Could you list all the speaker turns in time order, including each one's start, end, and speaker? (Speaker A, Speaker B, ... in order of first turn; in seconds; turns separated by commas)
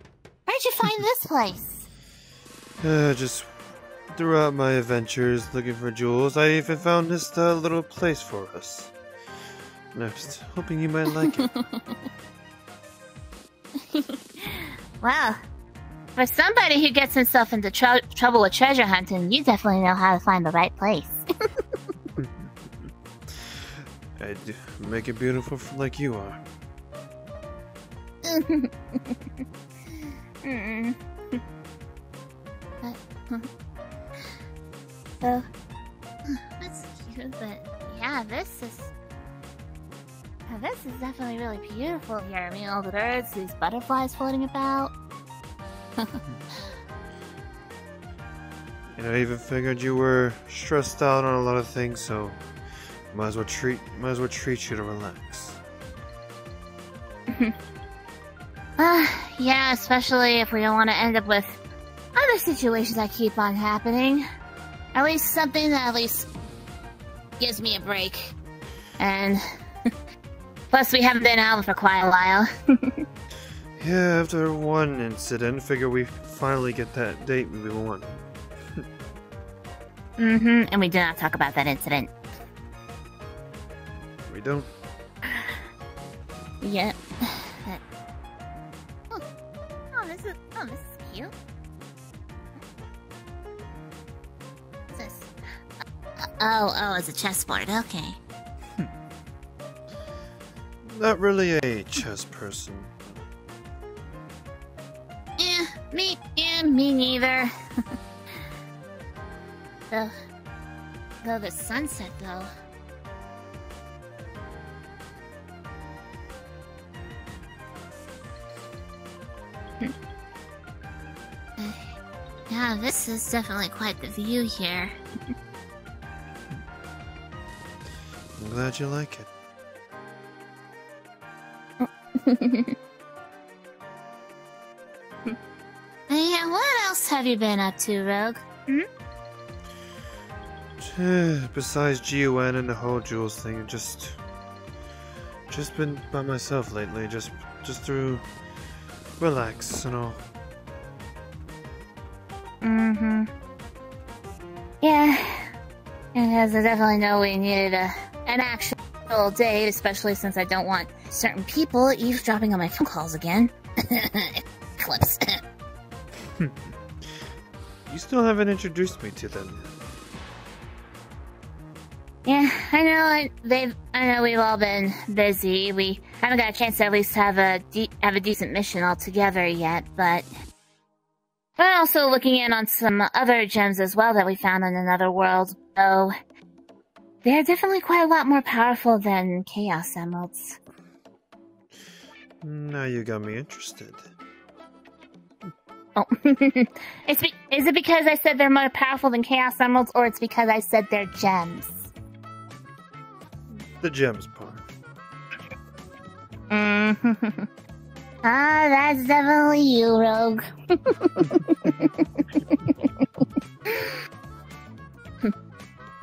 Speaker A: 0.5-1.9, Speaker B: 2.8-3.6, Speaker B: 4.1-8.9, Speaker B: 9.9-11.5, Speaker A: 11.2-12.0, Speaker A: 13.9-15.4, Speaker A: 16.1-21.2, Speaker B: 22.2-22.5, Speaker B: 23.3-26.4, Speaker A: 28.2-29.2, Speaker A: 29.9-31.4, Speaker A: 32.8-33.5, Speaker A: 36.6-38.9, Speaker A: 40.5-44.9, Speaker B: 49.0-52.4, Speaker B: 53.1-55.6, Speaker A: 58.8-61.6, Speaker A: 62.1-64.2, Speaker A: 64.9-66.3, Speaker A: 67.4-68.3, Speaker A: 69.0-69.4, Speaker A: 70.7-73.0, Speaker B: 73.8-78.2, Speaker A: 80.2-82.1, Speaker B: 84.3-84.7, Speaker A: 85.3-85.6, Speaker A: 86.6-87.8, Speaker A: 89.9-91.3, Speaker A: 94.9-95.3, Speaker A: 96.4-98.2, Speaker B: 100.8-103.2, Speaker A: 105.4-107.5, Speaker A: 111.2-112.5, Speaker A: 121.6-121.9, Speaker A: 122.5-124.9, Speaker B: 128.4-129.3, Speaker A: 131.8-132.7, Speaker A: 136.1-138.8, Speaker B: 140.8-144.2, Speaker B: 145.5-148.3, Speaker B: 149.2-150.2, Speaker A: 152.6-153.3, Speaker A: 154.8-155.5, Speaker A: 156.1-165.2, Speaker B: 166.4-166.7, Speaker B: 167.9-169.7, Speaker A: 172.2-180.3, Speaker A: 181.6-186.1, Speaker A: 187.2-190.6, Speaker B: 192.4-194.0, Speaker A: 195.9-201.9, Speaker B: 203.8-204.7, Speaker A: 206.5-207.4, Speaker A: 208.2-213.9